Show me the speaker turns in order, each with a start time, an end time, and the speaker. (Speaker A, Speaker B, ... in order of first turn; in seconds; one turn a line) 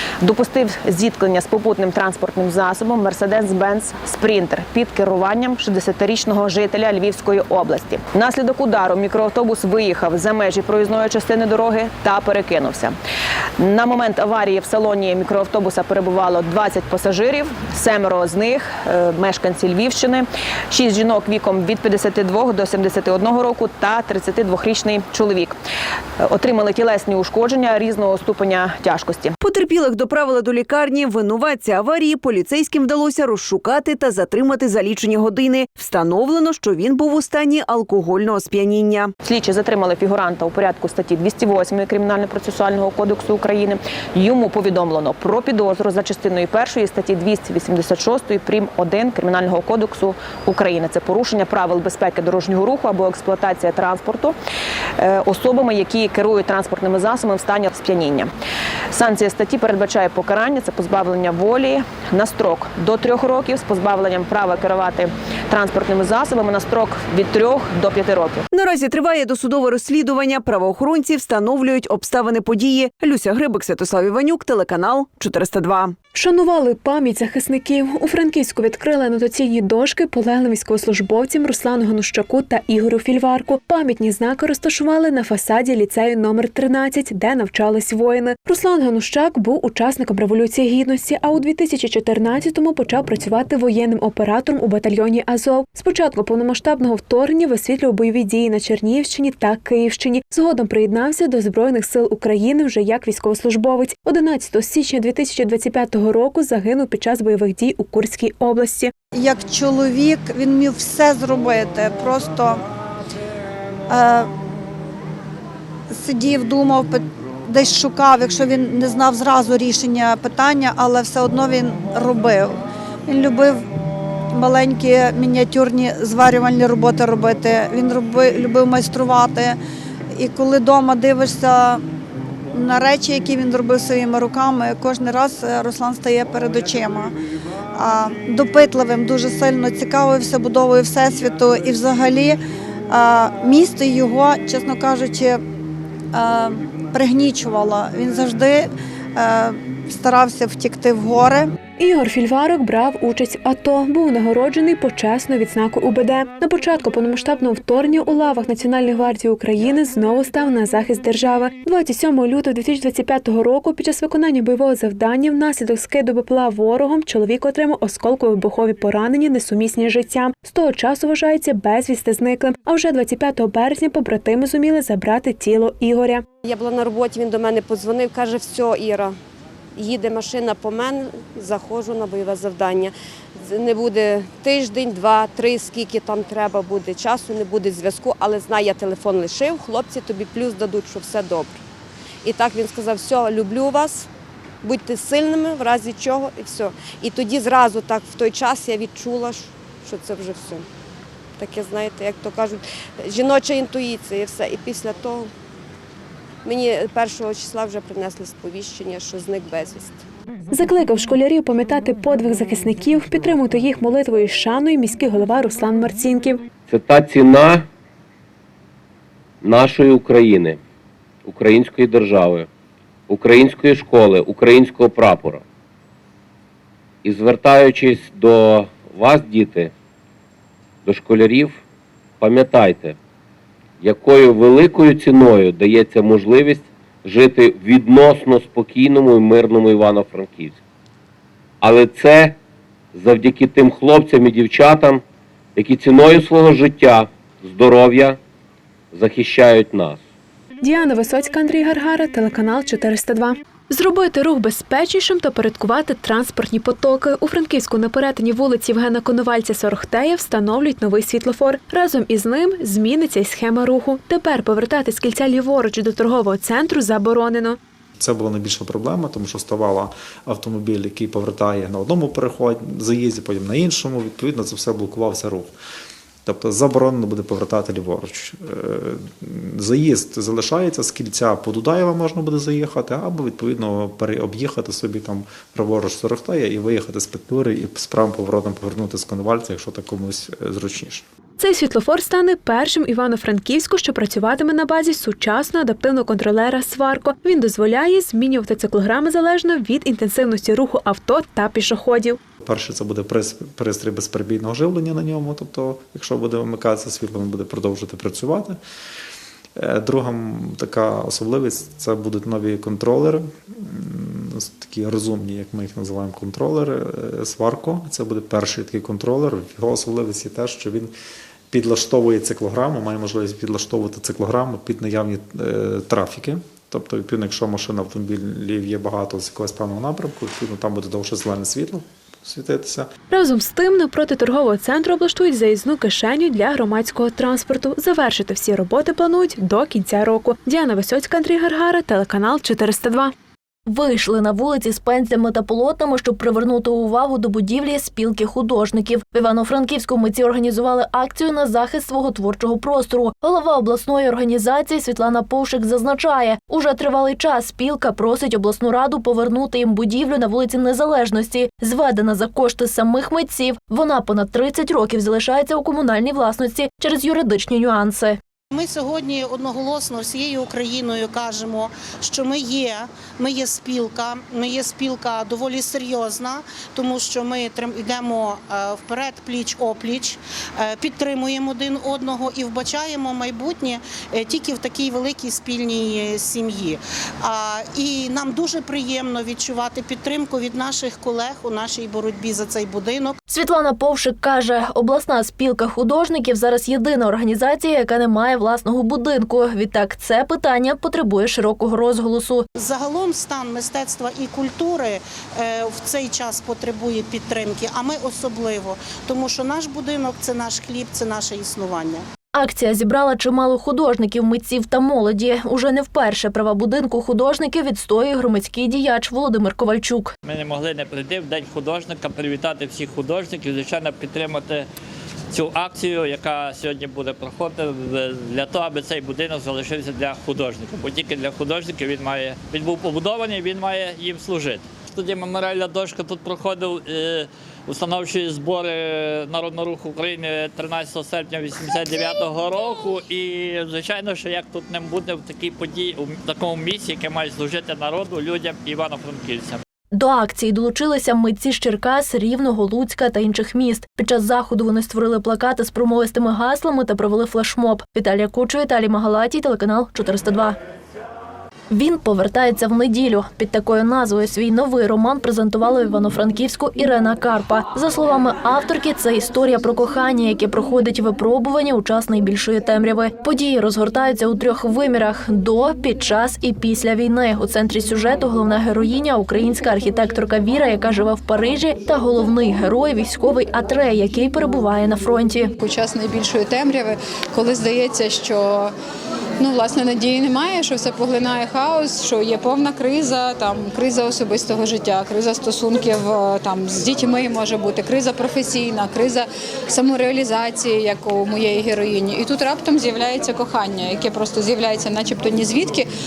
Speaker A: 0.2-12.9
Speaker A: 13.6-25.6
Speaker A: 26.3-29.4
Speaker B: 29.4-39.1
Speaker A: 39.2-54.3
Speaker A: 55.0-58.3
Speaker A: 58.9-68.4
Speaker B: 68.5-76.0
Speaker C: 76.1-108.9
Speaker D: 109.1-112.6
Speaker D: 113.9-114.3
Speaker D: 115.9-123.6
Speaker D: 124.3-129.6
Speaker D: 130.1-131.8
Speaker D: 132.5-137.1
Speaker D: 137.7-142.4
Speaker D: 142.9-145.4
Speaker D: 146.1-151.5
Speaker C: 151.8-176.2
Speaker E: 176.4-179.2
Speaker E: 179.8-191.6
Speaker E: 192.2-194.1
Speaker E: 194.6-200.7
Speaker E: 201.4-205.3
Speaker E: 206.4-210.0
Speaker C: 210.5-216.4
Speaker F: 216.7-217.7
Speaker F: 219.4-220.6
Speaker F: 221.2-222.5
Speaker F: 223.1-225.4
Speaker F: 227.0-229.7
Speaker F: 230.8-231.6
Speaker F: 232.2-233.0
Speaker F: 233.8-240.6
Speaker F: 241.6-242.4
Speaker F: 242.9-245.0
Speaker F: 245.6-248.2
Speaker F: 248.9-250.0
Speaker C: 250.6-267.6
Speaker G: 268.0-275.5
Speaker G: 276.2-291.0
Speaker C: 291.4-302.2
Speaker G: 302.4-308.6
Speaker G: 309.6-320.9
Speaker G: 321.5-332.9
Speaker C: 333.1-343.1
Speaker H: 343.7-368.2
Speaker I: 368.5-393.2
Speaker H: 393.3-402.4
Speaker I: 402.6-412.0
Speaker H: 412.3-420.1
Speaker J: 420.2-424.7
Speaker J: 425.3-449.6
Speaker H: 449.9-460.6
Speaker H: 461.7-485.5
Speaker K: 485.6-488.7
Speaker K: 489.4-505.9